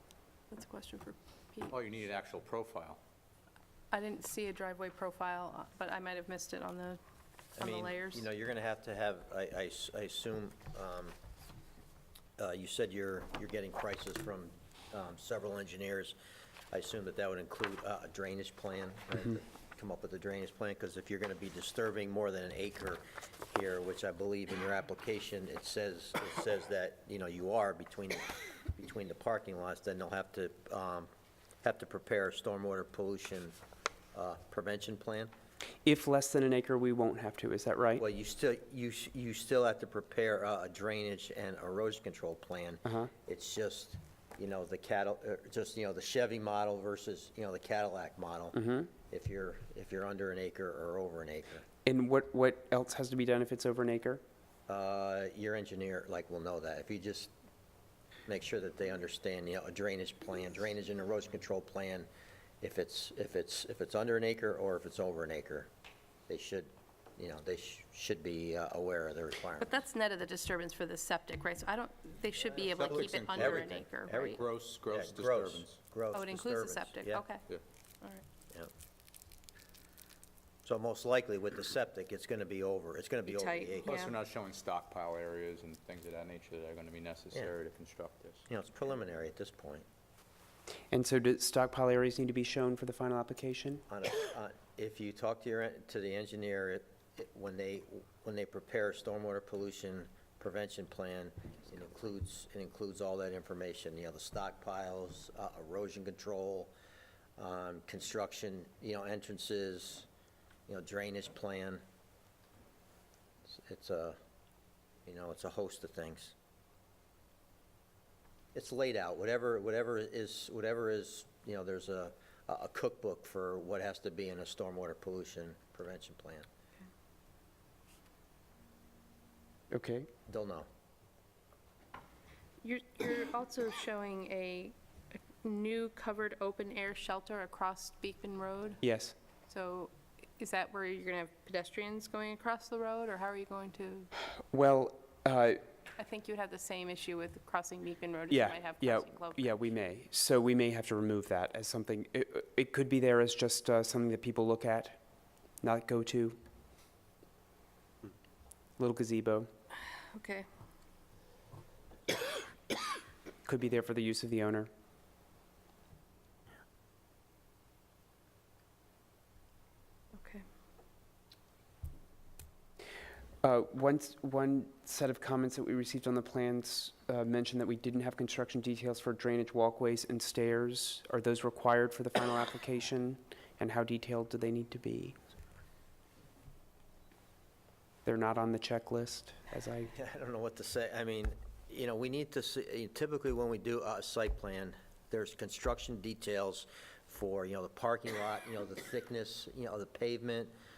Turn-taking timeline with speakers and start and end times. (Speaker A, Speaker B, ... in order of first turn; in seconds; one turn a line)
Speaker A: 0.5-1.8
Speaker B: 1.7-3.0
Speaker A: 3.9-7.0
Speaker C: 7.6-11.2
Speaker A: 7.6-8.3
Speaker C: 12.4-16.2
Speaker C: 16.7-31.1
Speaker C: 31.6-33.6
Speaker C: 34.1-35.3
Speaker D: 35.9-38.0
Speaker C: 38.0-51.6
Speaker D: 42.9-43.1
Speaker D: 48.5-48.9
Speaker D: 51.9-54.2
Speaker C: 54.7-57.3
Speaker C: 58.3-62.1
Speaker C: 62.6-65.7
Speaker C: 66.3-69.8
Speaker A: 69.6-74.4
Speaker C: 72.4-77.2
Speaker B: 72.7-75.8
Speaker A: 76.1-77.5
Speaker C: 80.6-84.0
Speaker A: 83.3-84.2
Speaker B: 83.8-88.5
Speaker C: 88.5-89.8
Speaker D: 90.9-93.8
Speaker C: 93.9-106.7
Speaker C: 107.4-110.1
Speaker C: 110.7-111.8
Speaker C: 113.5-114.2
Speaker C: 115.1-116.3
Speaker C: 118.5-126.5
Speaker D: 129.7-130.1
Speaker C: 130.3-130.7
Speaker A: 132.6-138.8
Speaker D: 138.8-139.2
Speaker A: 139.5-144.1
Speaker D: 144.5-145.6
Speaker A: 145.9-149.6
Speaker D: 148.3-155.0
Speaker D: 155.6-156.4
Speaker D: 158.8-159.5
Speaker A: 160.1-160.5
Speaker D: 163.4-164.7
Speaker A: 170.1-170.5
Speaker D: 173.4-185.2
Speaker D: 188.1-189.9
Speaker C: 189.9-200.5